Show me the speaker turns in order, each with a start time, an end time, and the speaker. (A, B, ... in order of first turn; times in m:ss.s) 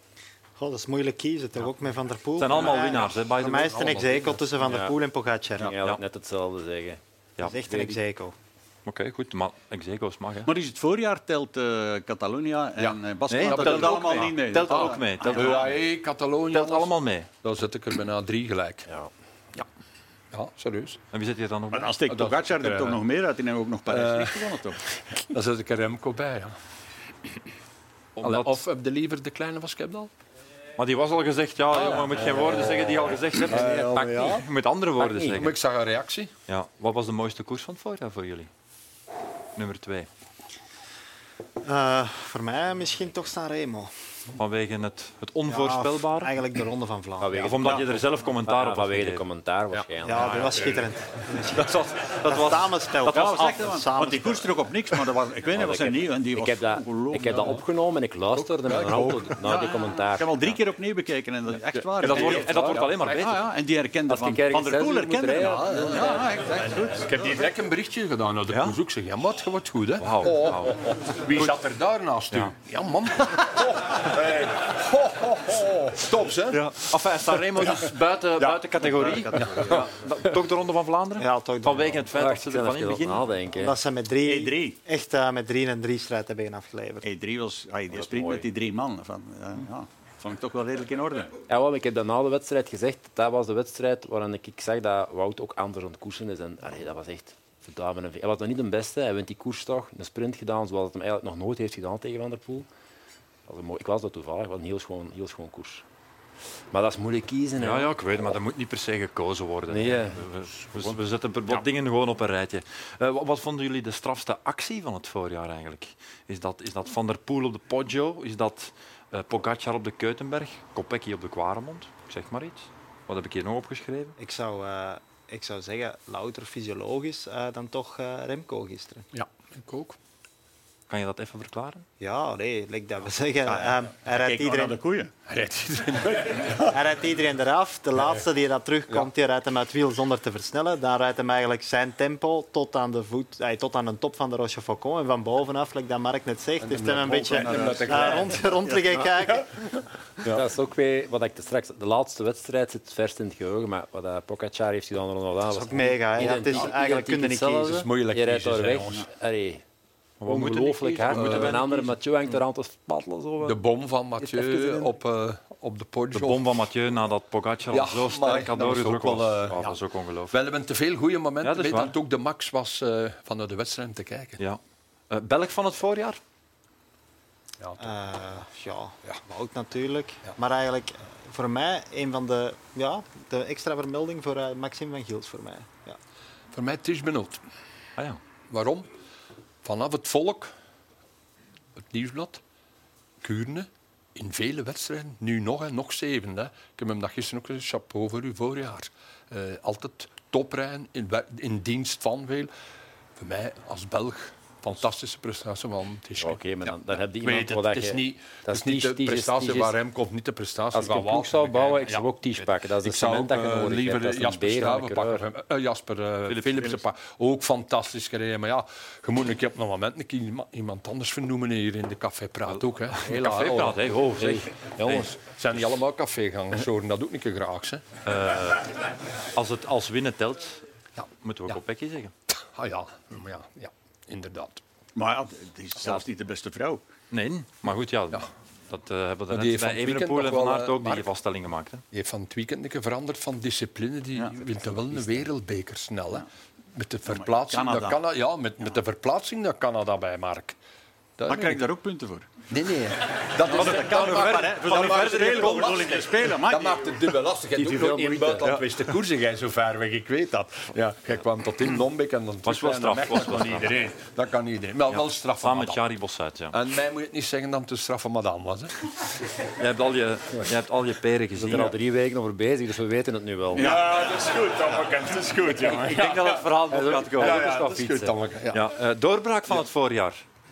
0:00.6-0:05.8 A
0:02.4-0:04.3 B
0:04.6-0:05.0 C
0:05.6-0:07.0 C
0:07.4-0:08.4 A
0:07.6-0:08.0 C
0:08.9-0:10.5 B
0:10.4-0:15.7 D
0:12.8-0:18.9 E
0:13.3-0:15.8 B
0:16.5-0:17.3 B
0:20.3-0:21.0 E
0:21.1-0:22.0 B
0:21.7-0:24.8 D
0:22.1-0:23.0 E
0:23.9-0:24.5 E
0:25.1-0:26.6 E
0:28.2-0:28.6 B
0:28.2-0:30.1 E
0:30.8-0:35.6 B
0:31.7-0:32.8 E
0:32.2-0:33.0 C
0:33.5-0:34.3 E
0:33.5-0:34.4 C
0:35.0-0:35.5 C
0:35.2-0:36.3 E
0:36.5-0:38.5 B
0:39.6-0:40.1 B
0:41.6-0:43.9 A
0:44.4-0:46.4 B
0:45.5-0:47.7 A
0:47.2-0:50.7 C
0:47.4-0:49.2 B
0:50.0-0:54.5 A
0:50.2-0:50.8 B
0:51.5-0:53.2 B
0:53.1-0:57.6 D
0:55.5-1:00.5 C
0:58.4-0:59.4 E
0:59.4-1:07.3 D
1:01.7-1:03.3 E
1:02.0-1:03.5 B
1:04.1-1:06.3 C
1:05.4-1:16.7 E
1:08.5-1:08.8 B
1:10.0-1:11.6 B
1:16.5-1:23.3 B
1:17.6-1:17.9 E
1:18.9-1:19.4 D
1:19.4-1:19.8 E
1:21.2-1:22.0 A
1:22.1-1:23.8 C
1:23.6-1:27.1 A
1:24.2-1:24.8 D
1:27.0-1:31.3 D
1:27.9-1:28.5 C
1:31.5-1:42.7 C
1:43.5-1:45.8 C
1:46.7-1:47.9 C
1:47.6-2:04.2 B
1:49.7-1:50.2 C
2:04.2-2:09.1 A
2:09.1-2:10.0 E
2:10.9-2:11.8 B
2:12.0-2:14.8 A
2:13.4-2:15.1 D
2:15.3-2:16.8 E
2:16.6-2:29.7 A
2:26.6-2:29.4 E
2:27.3-2:28.7 D
2:30.3-2:39.6 C
2:35.5-2:37.9 A
2:37.7-2:39.1 E
2:40.2-2:41.9 B
2:40.2-2:43.6 C
2:41.1-2:41.7 E
2:43.4-2:46.6 E
2:44.2-2:45.0 C
2:46.1-2:50.4 B
2:47.7-2:49.8 E
2:50.3-2:54.4 E
2:51.4-2:52.0 B
2:54.4-2:56.2 B
2:57.6-2:57.9 E
2:57.8-3:06.0 A
3:06.5-3:07.4 E
3:08.5-3:08.9 E
3:09.6-3:10.5 E
3:11.8-3:12.4 E
3:13.2-3:22.5 E
3:23.2-3:32.0 E
3:26.2-3:29.8 C
3:30.7-3:35.2 C
3:32.8-3:47.8 E
3:36.3-3:36.8 B
3:42.5-3:45.1 B
3:48.0-3:48.8 B
3:49.3-3:50.6 B
3:51.0-3:51.6 E
3:51.2-3:52.1 B
3:52.3-3:54.6 E
3:55.0-3:56.8 D
3:57.1-4:01.8 B
3:59.3-4:01.1 E
4:01.9-4:10.6 E
4:04.2-4:05.2 D
4:07.1-4:08.0 D
4:11.2-4:11.7 E
4:11.3-4:12.3 D
4:12.5-4:25.8 E
4:13.4-4:16.9 D
4:13.5-4:15.9 B
4:17.6-4:18.6 C
4:22.4-4:23.8 B
4:24.9-4:26.6 B
4:26.5-4:28.7 E
4:29.6-4:31.7 B
4:31.4-4:33.8 C
4:33.6-4:34.0 D
4:33.6-4:38.7 E
4:35.7-4:37.8 B
4:36.7-4:38.2 C
4:38.5-4:40.2 B